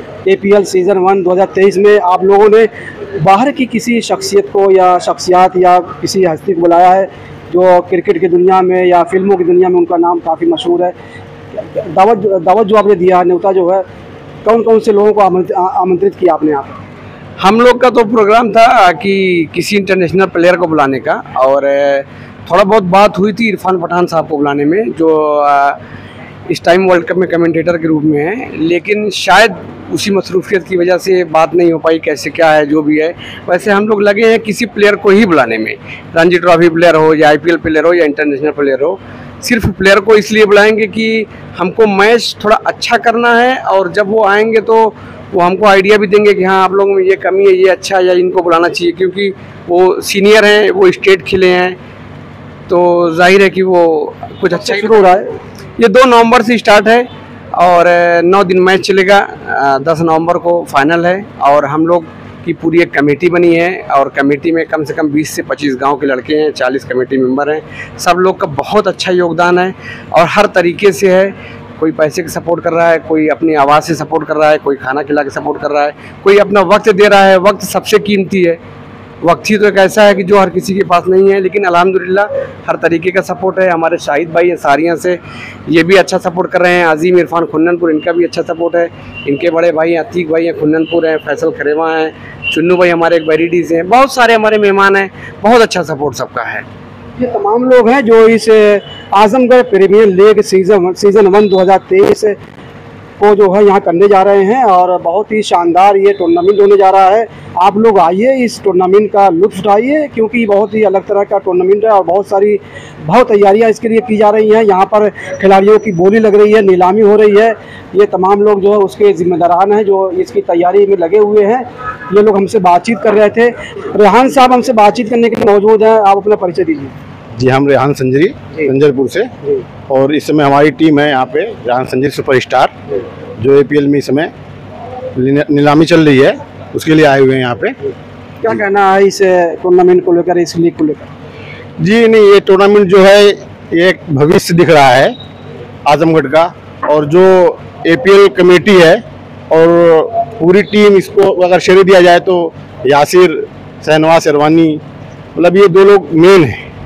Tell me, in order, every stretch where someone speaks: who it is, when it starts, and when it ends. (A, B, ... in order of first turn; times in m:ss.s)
0:00.2-0:10.9 A
0:11.6-0:13.9 A
0:14.4-0:16.8 A
0:17.4-0:25.8 B
0:26.5-0:51.8 B
0:52.7-0:55.2 B
0:54.5-0:55.3 A
0:55.8-1:18.6 B
1:19.2-1:36.6 B
1:37.2-1:42.4 A
1:43.2-2:07.0 A
2:07.4-2:09.3 C
2:09.9-2:12.8 C
2:13.4-2:14.3 C
2:15.2-2:17.8 C
2:18.4-2:21.1 A
2:21.8-2:25.2 C
2:25.9-2:34.8 C
2:35.4-2:36.7 C